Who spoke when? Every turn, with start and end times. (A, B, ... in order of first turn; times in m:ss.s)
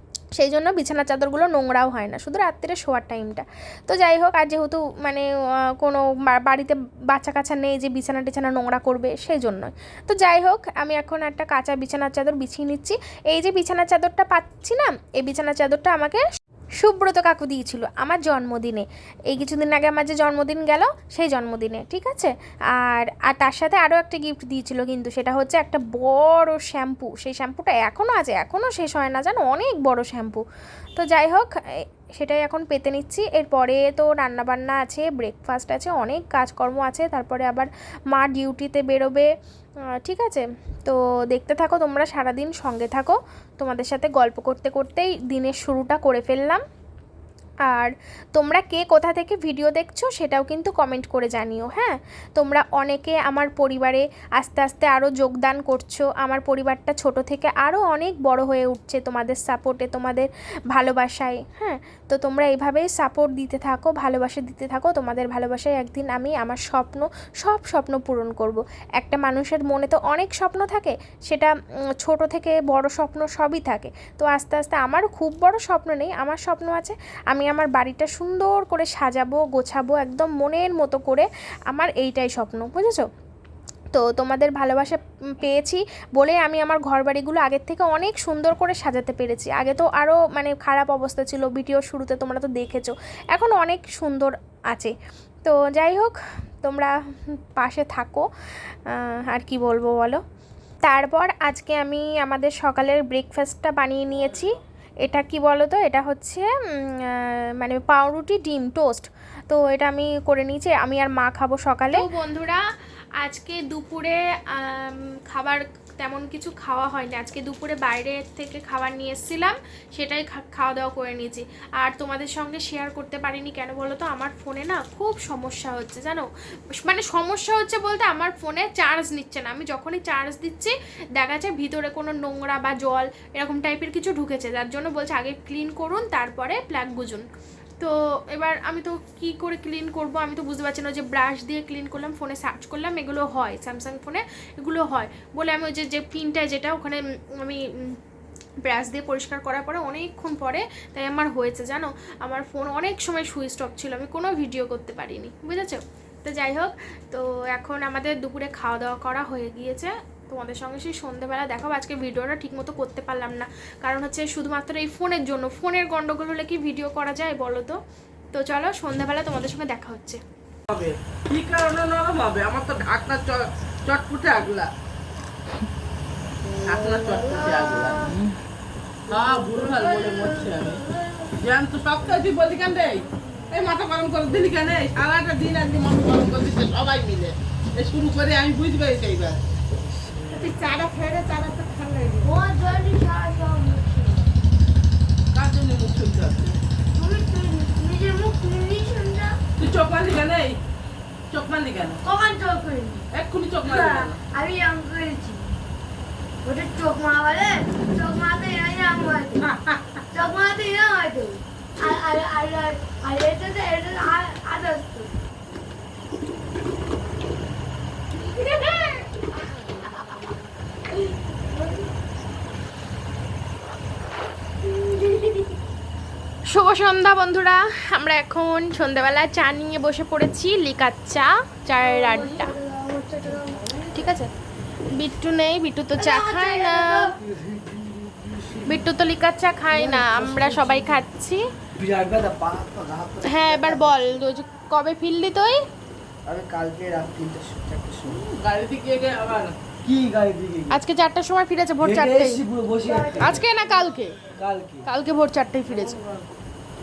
0:00.4-0:05.3 A
0:05.8-0:16.2 A
0:16.8-0:30.4 A
0:31.0-0:39.3 A
0:40.0-0:46.6 A
0:47.7-1:23.0 A
1:23.9-1:34.9 A
1:35.4-1:36.9 A
1:37.6-1:38.2 A
1:38.9-1:40.2 A
1:40.9-1:52.6 A
1:53.2-2:17.3 A
2:17.8-2:28.0 A
2:28.6-2:47.8 A
2:48.3-2:50.2 A
2:50.7-2:54.7 B
2:56.4-2:58.2 C
2:56.6-2:58.1 B
2:59.1-3:01.3 C
2:59.1-3:00.8 B
3:01.4-3:09.4 B
3:02.6-3:03.6 C
3:09.7-3:10.5 D
3:12.2-3:14.3 C
3:15.3-3:16.6 B
3:17.0-3:19.4 C
3:19.6-3:20.6 B
3:21.3-3:22.0 B
3:22.0-3:23.0 C
3:23.1-3:24.2 B
3:23.6-3:25.5 C
3:26.4-3:29.5 C
3:30.1-3:35.1 C
3:38.3-3:38.6 C
3:39.6-3:40.2 C
3:40.9-3:41.9 C
3:44.6-3:45.6 C
3:46.5-3:52.6 A
3:51.8-3:54.0 C
3:53.9-3:54.3 A
3:54.9-3:57.1 A
3:56.0-3:57.2 C
3:57.2-3:58.9 D
3:58.7-4:01.4 A
3:59.7-4:01.0 D
4:01.8-4:04.2 D
4:03.2-4:05.6 A
4:06.3-4:08.2 D
4:08.1-4:09.6 B
4:09.8-4:10.8 D
4:10.7-4:12.4 A
4:11.8-4:13.4 D
4:13.2-4:14.2 A
4:14.3-4:14.9 D
4:14.9-4:16.0 A
4:15.8-4:16.3 B